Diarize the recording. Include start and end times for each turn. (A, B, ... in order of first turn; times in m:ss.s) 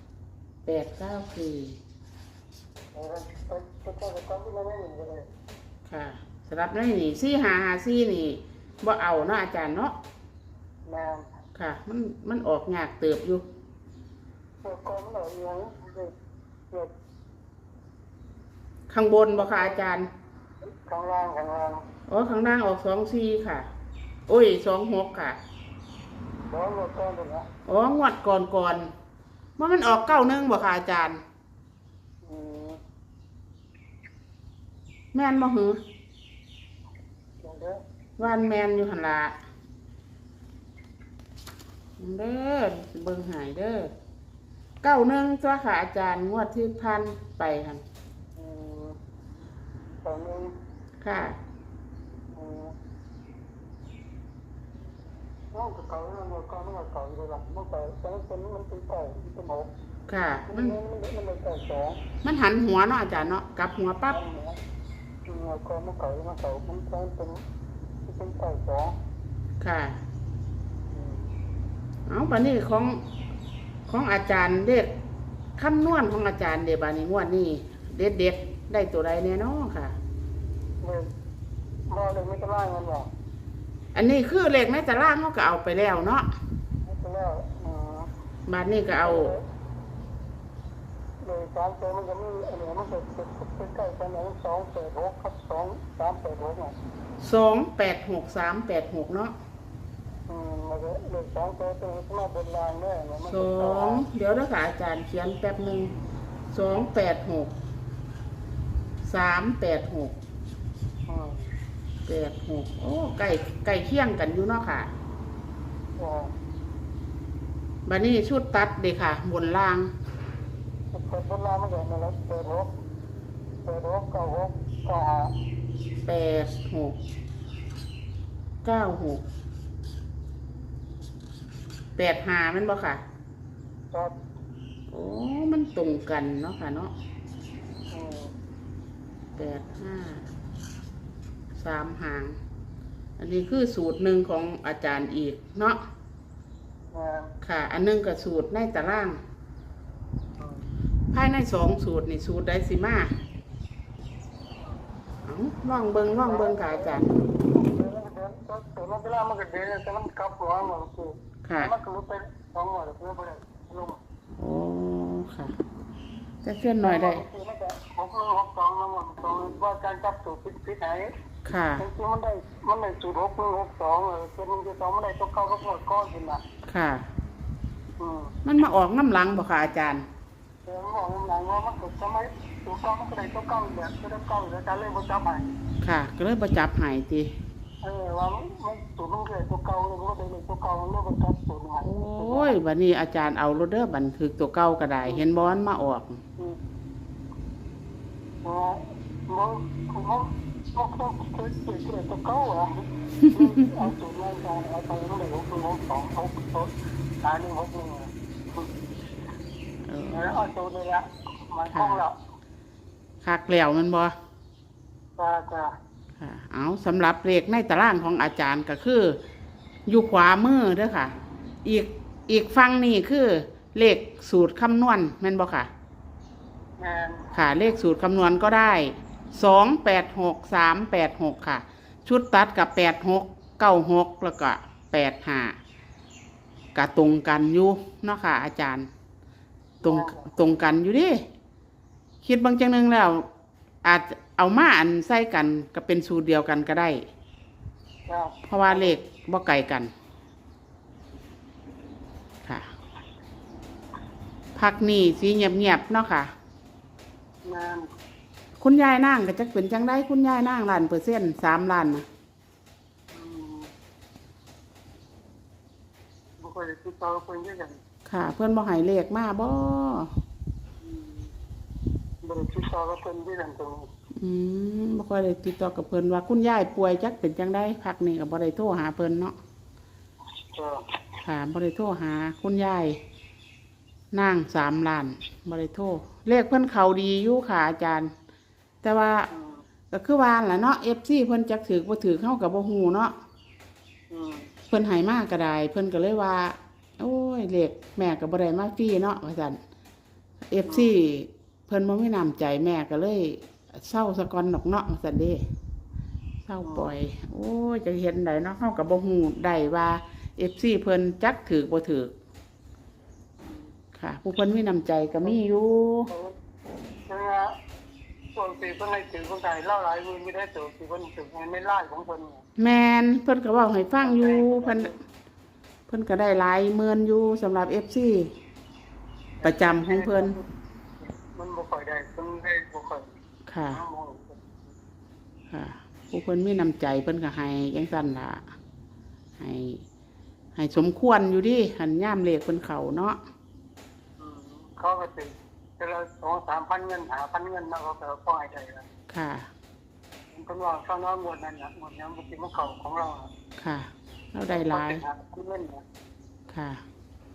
0:00.7-0:01.8 A
0:02.9-0:05.3 B
0:05.9-0:10.0 A
0:10.8-0:11.3 B
0:11.6-0:13.4 A
0:14.6-0:16.1 B
0:18.9-0:20.1 A
0:19.3-0:19.8 B
0:20.6-0:21.8 B
0:22.1-0:23.7 A
0:24.3-0:25.4 A
0:26.5-0:27.5 B
0:27.7-0:28.9 A
0:29.6-0:31.2 A
0:32.2-0:32.8 B
0:35.1-0:35.8 A
0:37.4-0:37.8 B
0:38.2-0:39.4 A
0:42.0-0:43.9 A
0:44.8-0:47.8 A
0:48.4-0:49.0 B
0:50.0-0:50.5 B
0:51.0-0:51.4 A
0:52.3-0:52.7 B
0:55.5-0:59.7 B
1:00.1-1:00.8 A
1:00.5-1:02.0 B
1:02.2-1:04.2 A
1:04.1-1:04.6 B
1:05.3-1:07.4 B
1:08.0-1:09.0 B
1:09.6-1:10.0 A
1:10.9-1:11.3 B
1:12.1-1:13.0 A
1:13.9-1:14.9 A
1:15.6-1:20.0 A
1:20.8-1:21.1 B
1:21.9-1:23.1 B
1:23.9-1:26.3 A
1:26.8-1:28.1 B
1:28.5-1:29.3 A
1:29.0-1:29.5 B
1:31.2-1:36.8 B
1:37.2-1:39.3 A
1:40.3-1:44.1 B
1:43.3-1:45.9 A
1:46.5-1:47.5 A
1:49.1-1:50.2 A
1:51.1-1:51.5 B
1:52.1-1:54.9 A
1:56.0-1:56.3 B
1:57.9-1:59.9 A
2:00.9-2:02.7 B
2:03.6-2:05.3 B
2:06.0-2:07.0 A
2:08.6-2:09.2 A
2:12.0-2:13.0 A
2:14.9-2:16.9 A
2:17.9-2:18.3 B
2:19.4-2:20.3 A
2:21.6-2:22.4 A
2:23.2-2:25.8 A
2:26.9-2:27.3 B
2:27.4-2:29.2 A
2:30.4-2:30.7 B
2:31.1-2:33.1 A
2:35.2-2:37.1 A
2:36.2-2:44.0 B
2:41.4-2:41.7 A
2:44.4-2:45.6 A
2:46.4-2:47.2 A
2:46.8-2:51.1 B
2:51.5-2:51.8 A
2:51.8-2:56.4 B
2:56.7-2:57.1 A
2:58.0-2:58.3 B
2:58.4-3:00.0 A
3:00.7-3:05.5 B
3:05.8-3:07.3 A
3:07.8-3:12.6 B
3:11.8-3:16.2 A
3:18.4-3:28.7 B
3:29.9-3:30.3 A
3:30.1-3:32.2 B
3:31.7-3:32.0 A
3:33.2-3:34.2 A
3:35.2-3:35.7 B
3:36.2-3:39.2 A
3:39.9-3:41.1 A
3:41.6-3:45.7 A
3:46.8-3:47.3 B
3:47.3-3:55.6 A
3:56.8-3:58.9 A
3:59.8-4:00.3 B
3:59.8-4:01.2 A
4:02.2-4:03.3 A
4:03.8-4:07.0 A
4:08.1-4:09.0 B
4:08.5-4:09.9 A
4:14.6-4:16.3 A
4:17.4-4:17.9 B
4:18.6-4:22.1 A
4:23.1-4:23.7 B
4:26.4-4:27.8 B
4:28.1-4:30.1 A
4:30.8-4:31.3 B
4:32.2-4:33.9 B
4:34.2-4:39.4 A
4:40.5-4:41.0 B
4:41.2-4:43.0 A
4:44.1-4:48.1 A
4:48.8-4:49.3 A
4:49.3-4:49.6 B
4:49.9-4:53.1 A
4:54.1-4:54.5 B
4:54.7-4:59.6 A
5:00.5-5:05.4 A
5:00.7-5:00.9 B
5:06.5-5:12.1 A
5:06.6-5:06.9 B
5:13.4-5:13.7 B
5:14.0-5:16.1 A
5:16.1-5:16.4 B
5:17.1-5:17.6 B
5:18.4-5:22.4 B
5:22.6-5:24.9 A
5:24.0-5:25.0 B
5:25.9-5:28.3 A
5:29.4-5:30.4 B
5:29.4-5:30.4 A
5:31.0-5:33.1 B
5:33.5-5:33.8 A
5:33.7-5:34.5 B
5:35.5-5:38.4 A
5:39.4-5:39.8 A
5:40.6-5:43.2 A
5:44.2-5:48.9 B
5:49.1-5:49.5 A
5:50.3-5:53.3 B
5:53.6-5:55.0 A
5:54.5-5:55.8 B
5:56.5-5:56.8 A